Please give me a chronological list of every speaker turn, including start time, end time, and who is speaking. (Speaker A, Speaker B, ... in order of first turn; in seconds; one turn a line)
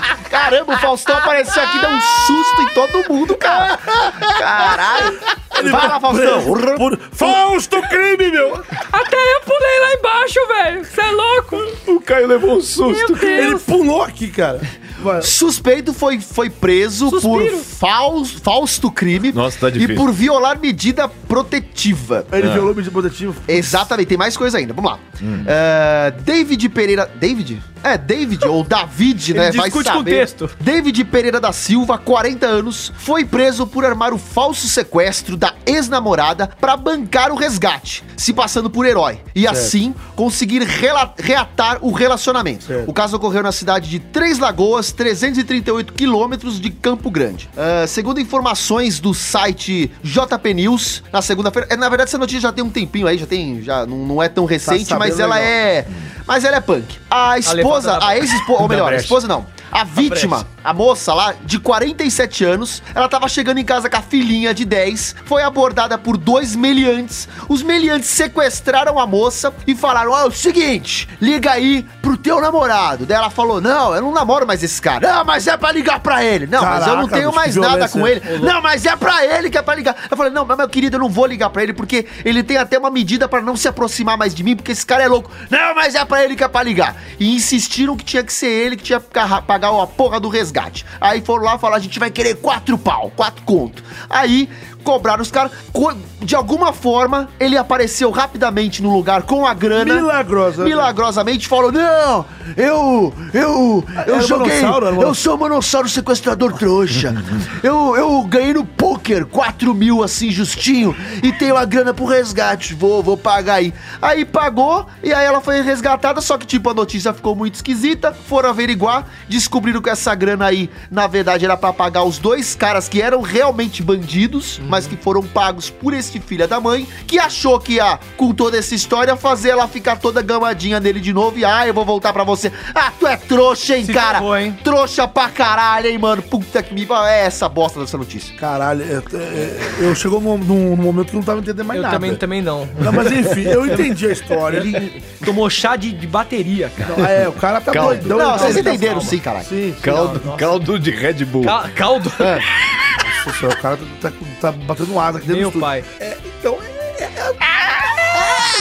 Speaker A: 0.3-7.3
Speaker B: 5.5-8.7
Speaker C: 8.9-11.7
Speaker D: 11.7-13.6
Speaker C: 12.9-13.7
Speaker B: 13.3-15.3
Speaker A: 15.2-22.3
Speaker C: 17.1-17.7
Speaker D: 19.3-20.1
Speaker B: 22.3-23.9
Speaker D: 22.4-22.7
Speaker A: 23.5-138.4
Speaker D: 25.2-25.5
Speaker E: 29.3-30.6
Speaker B: 39.5-39.8
Speaker B: 42.7-42.9
Speaker B: 54.6-55.5
Speaker E: 57.5-59.1
Speaker E: 60.0-60.4
Speaker B: 76.6-78.2
Speaker E: 78.3-78.5
Speaker B: 99.7-100.9
Speaker B: 104.0-105.2
Speaker E: 133.8-134.6
Speaker B: 138.4-142.2
Speaker E: 141.7-143.9
Speaker B: 142.8-144.9
Speaker E: 144.5-147.1
Speaker B: 146.8-150.5
Speaker D: 147.7-148.5
Speaker A: 148.1-149.5
Speaker E: 148.2-149.2
Speaker D: 149.8-151.6
Speaker E: 149.8-150.4
Speaker E: 151.4-152.4
Speaker B: 153.0-158.2
Speaker E: 155.3-155.8